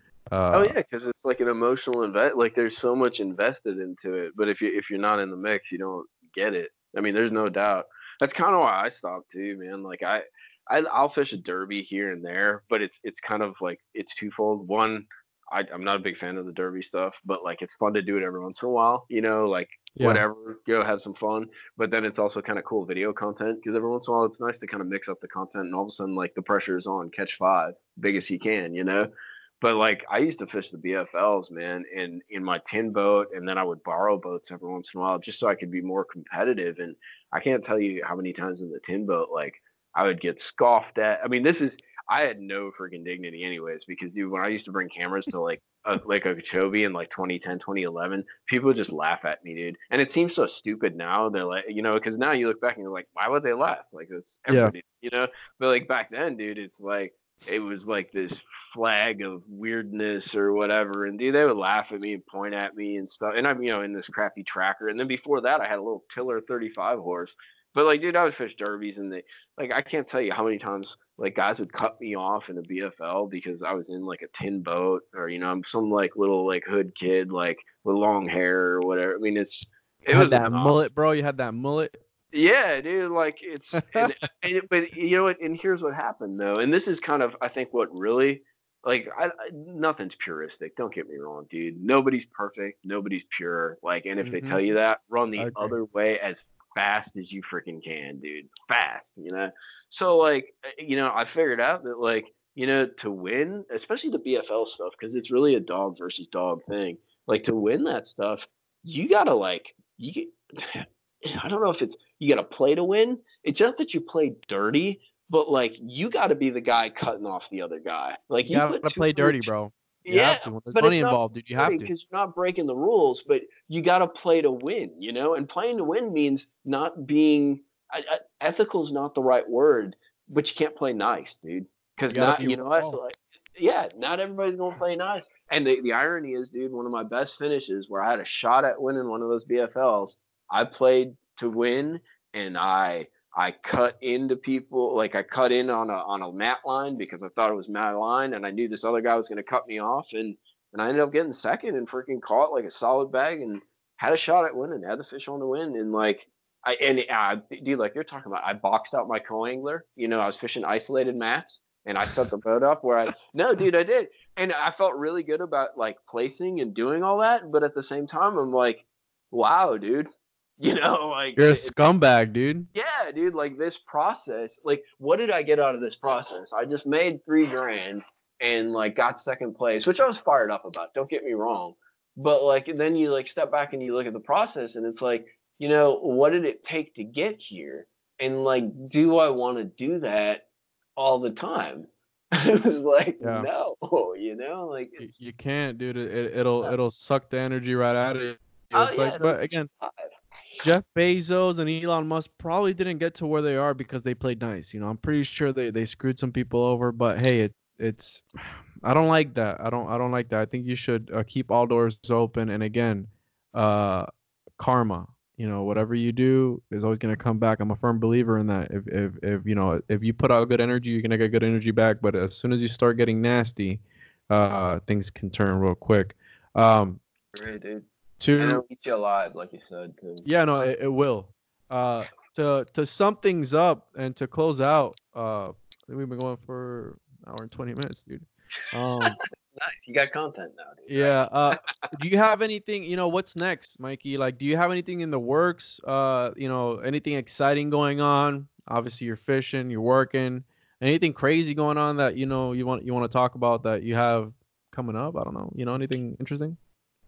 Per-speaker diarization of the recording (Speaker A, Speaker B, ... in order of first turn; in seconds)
Speaker A: 0.3-0.7, 19.9-20.2, 54.5-54.7, 80.1-81.9, 83.8-84.3, 94.2-94.6, 95.4-95.7, 118.5-121.9, 132.1-133.0, 171.4-172.7, 193.2-193.5, 195.0-199.7, 200.6-227.0, 228.2-228.6, 230.2-239.2, 240.9-256.6
Speaker B: 0.5-80.7, 82.3-119.5, 120.0-171.8, 172.7-195.1, 198.7-200.1, 227.3-227.8, 228.4-230.2, 239.0-241.9